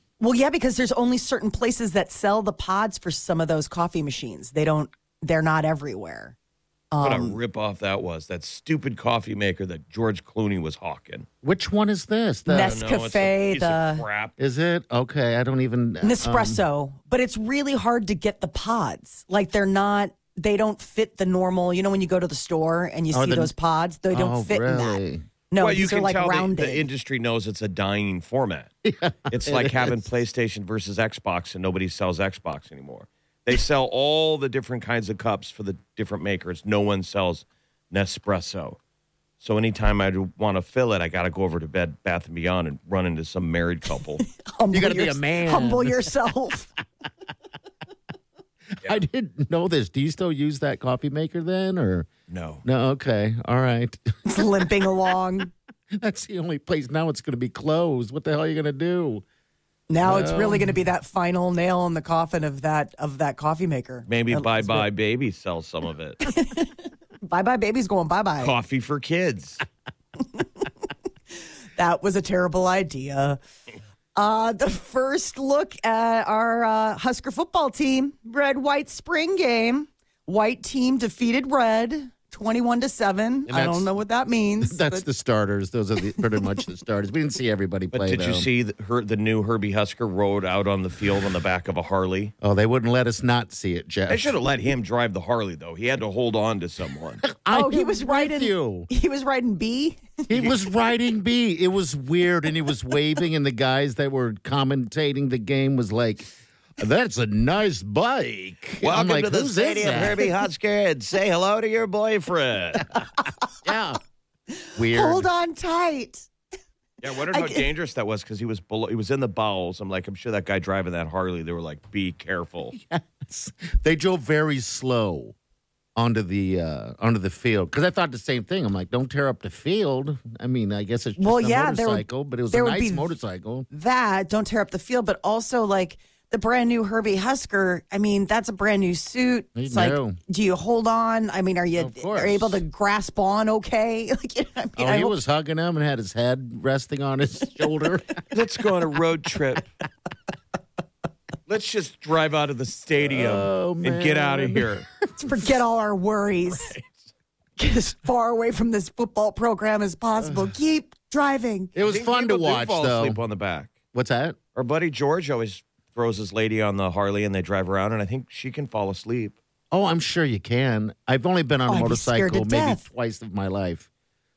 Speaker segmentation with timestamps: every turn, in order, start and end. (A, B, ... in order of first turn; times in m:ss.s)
0:00.2-0:06.3 A
0:06.9-0:07.4 A
0:07.0-0:11.3 B
0:11.4-0:12.8 C
0:12.5-0:14.0 A
0:12.5-0:14.3 B
0:14.4-0:16.6 C
0:16.0-0:25.0 A
0:23.1-0:23.5 C
0:24.1-0:25.2 C
0:25.5-0:26.8 A
0:25.6-0:28.7 B
0:28.8-0:30.0 C
0:29.3-0:38.8 B
0:39.4-0:44.2 B
0:44.4-0:46.7 A
0:44.7-0:46.1 C
0:48.8-0:52.1 C
0:52.3-0:52.6 B
0:52.6-0:54.4 C
0:54.2-0:55.5 A
0:55.9-0:59.2 C
0:59.9-1:04.9 A
1:00.0-1:00.8 C
1:04.1-1:06.2 B
1:06.2-1:08.5 A
1:08.4-1:09.6 B
1:11.8-1:13.4 A
1:14.2-1:25.0 A
1:23.5-1:23.9 C
1:24.6-1:28.5 C
1:27.9-1:32.3 B
1:32.4-1:34.3 C
1:34.1-1:37.2 B
1:37.2-1:38.9 C
1:37.5-1:40.1 A
1:40.3-1:50.2 C
1:48.8-1:53.0 B
1:53.6-1:54.0 C
1:54.6-1:56.3 A
1:54.8-1:55.3 C
1:57.0-2:02.7 B
1:57.3-1:57.6 A
2:02.7-2:05.3 C
2:06.0-2:13.7 C
2:11.2-2:13.1 A
2:13.7-2:25.2 A
2:19.6-2:20.2 C
2:21.8-2:22.6 C
2:24.8-2:28.1 C
2:28.3-2:29.7 B
2:31.5-2:34.9 B
2:33.0-2:34.9 C
2:35.2-2:36.7 A
2:36.6-2:37.0 B
2:37.6-2:41.7 A
2:40.2-2:40.5 C
2:41.7-2:43.2 C
2:41.8-2:43.7 B
2:43.9-2:44.4 C
2:44.5-2:49.4 B
2:49.7-2:53.9 C
2:51.7-2:52.8 A